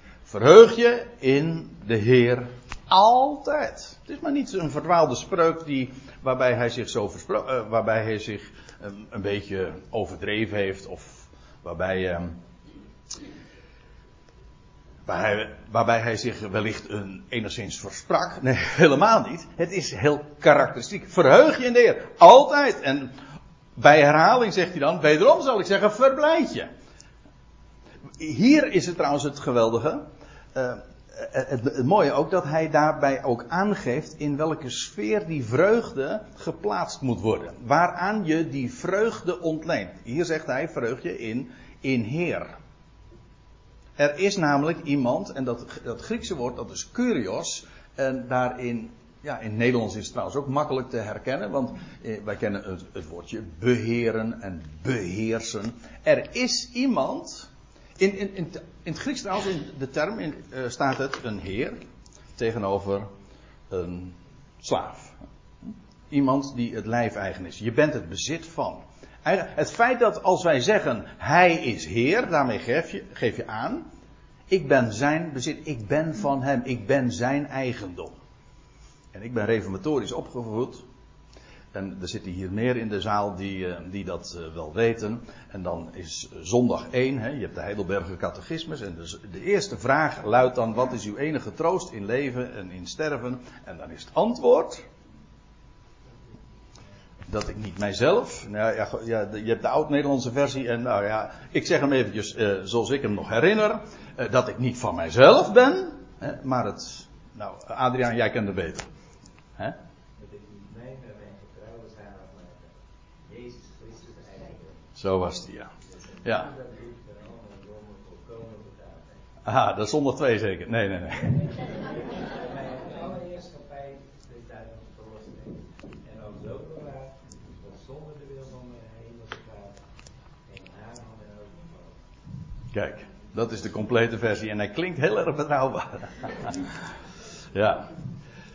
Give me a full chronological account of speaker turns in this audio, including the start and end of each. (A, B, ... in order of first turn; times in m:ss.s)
0:00.3-0:12.4 A
0:15.1-0:23.1 A
0:23.8-0:26.7 A
0:28.2-0:42.5 A
0:44.0-1:01.8 A
1:02.4-1:03.1 A
1:03.7-1:05.2 A
1:06.1-1:13.9 A
1:14.5-1:18.1 A
1:19.1-1:20.8 A
1:21.7-1:34.8 A
1:37.3-1:48.8 A
1:50.2-1:54.8 B
1:55.0-1:55.7 A
1:56.0-1:59.2 B
1:56.2-1:56.5 A
1:59.4-2:01.4 A
2:01.3-2:09.8 B
2:10.5-2:12.0 B
2:12.7-2:16.6 A
2:17.5-2:17.9 A